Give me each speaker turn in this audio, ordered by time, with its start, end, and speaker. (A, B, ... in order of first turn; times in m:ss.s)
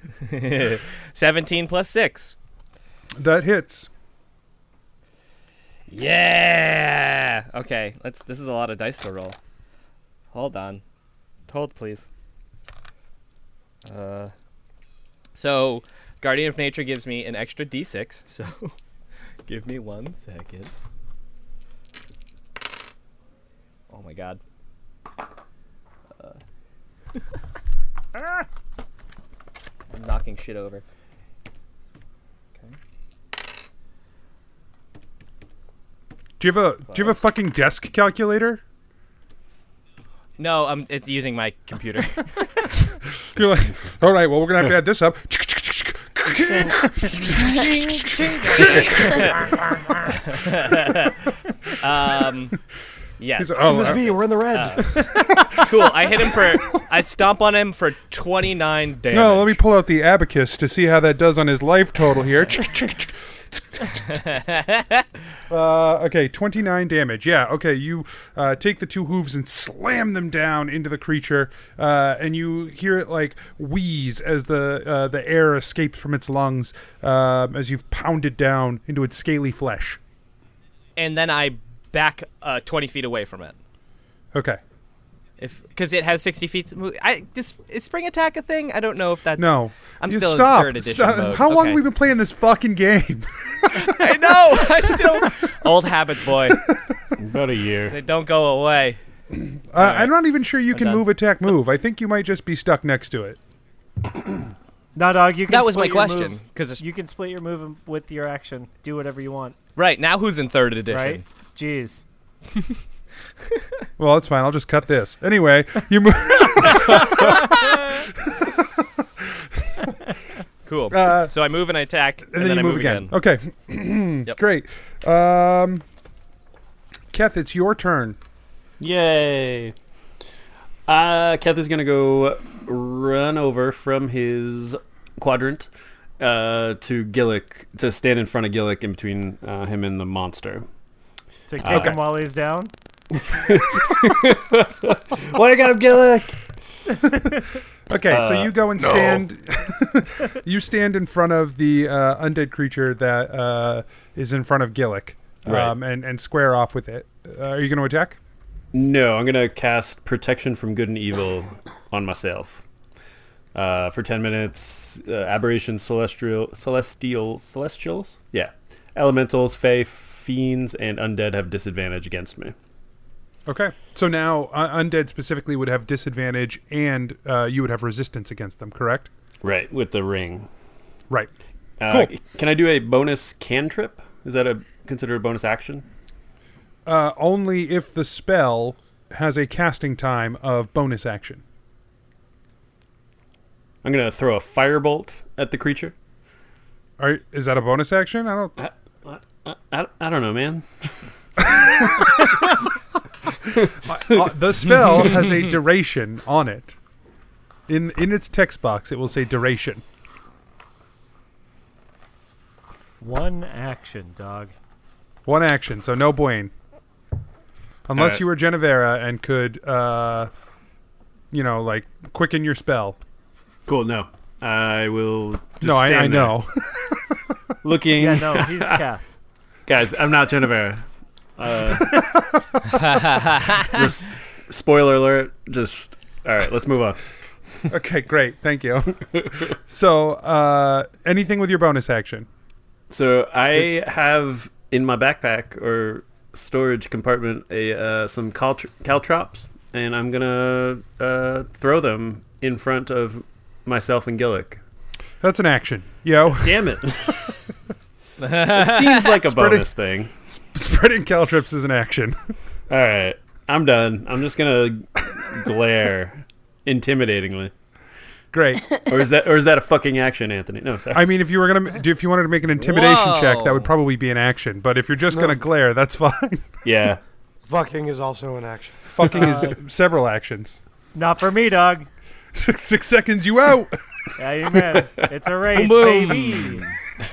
0:00.2-0:02.3 A
0:03.2-0:03.9 B
0:05.9-0:09.4 A
0:10.3-0:10.8 A
0:11.5-0:12.1 A
0:13.8-0:14.3 A
0:15.3-0:18.7 A
0:19.5-0:20.7 A
0:23.9-0:24.4 A
0:29.9-0:30.8 A
0:36.4-0:38.6 B
0:40.4-0:42.7 A
0:43.2-0:49.9 B
0:48.6-0:49.4 A
0:50.2-0:52.6 A
0:53.2-0:59.6 A
0:53.3-0:54.0 B
0:53.6-0:55.0 C
0:59.1-1:04.2 B
1:04.1-1:05.0 A
1:05.5-1:20.0 B
1:21.0-1:23.6 A
1:24.3-1:24.6 B
1:25.4-1:31.8 A
1:29.4-1:34.0 B
1:33.7-1:36.6 A
1:37.2-1:38.0 D
1:37.9-1:39.0 A
1:39.3-1:43.4 B
1:39.8-1:41.4 A
1:45.0-1:49.5 E
1:45.5-1:46.8 A
1:49.8-1:51.2 A
1:50.9-1:52.0 E
1:54.0-1:59.8 B
1:56.7-1:57.6 A
2:00.6-2:03.1 A
2:00.9-2:01.3 B
2:02.3-2:05.8 B
2:07.1-2:08.2 B
2:08.8-2:09.7 D
2:10.9-2:20.6 D
2:21.5-2:22.7 E
2:21.6-2:21.9 D
2:21.7-2:22.0 B
2:23.2-2:26.3 D
2:27.9-2:38.2 B
2:28.1-2:29.1 D
2:35.4-2:35.7 D
2:38.7-2:42.6 D
2:43.5-2:52.5 D
2:53.4-2:59.1 B
2:59.4-3:00.5 D
3:01.8-3:05.8 D
3:06.8-3:11.4 B
3:13.8-3:15.9 D
3:17.0-3:18.6 B
3:18.6-3:20.7 D
3:21.4-3:22.5 D
3:21.6-3:22.0 B
3:23.8-3:26.8 B
3:27.7-3:29.8 B
3:33.0-3:34.5 E
3:35.2-3:36.5 B
3:37.9-3:40.3 B
3:38.0-3:38.2 D
3:41.3-3:43.0 B
3:43.7-3:46.4 D
3:45.6-3:47.1 B
3:47.6-3:48.8 D
3:48.0-3:49.0 E
3:49.7-3:50.8 D
3:51.4-3:52.2 D
3:52.7-3:53.8 A
3:53.5-3:57.0 D
3:57.7-4:02.3 B
4:02.9-4:14.6 D
4:15.2-4:16.8 B
4:16.4-4:17.2 D
4:18.2-4:19.1 A
4:18.3-4:20.1 D
4:19.3-4:19.7 B
4:20.2-4:22.3 B
4:22.7-4:27.5 D
4:28.3-4:28.6 B
4:28.9-4:31.0 D
4:30.9-4:36.5 B
4:32.6-4:33.7 A
4:36.6-4:37.0 D
4:37.4-4:39.2 C
4:38.9-4:40.6 B
4:39.2-4:39.5 E
4:40.9-4:41.9 E
4:42.3-4:43.8 B
4:44.2-4:46.6 E
4:45.5-4:46.6 A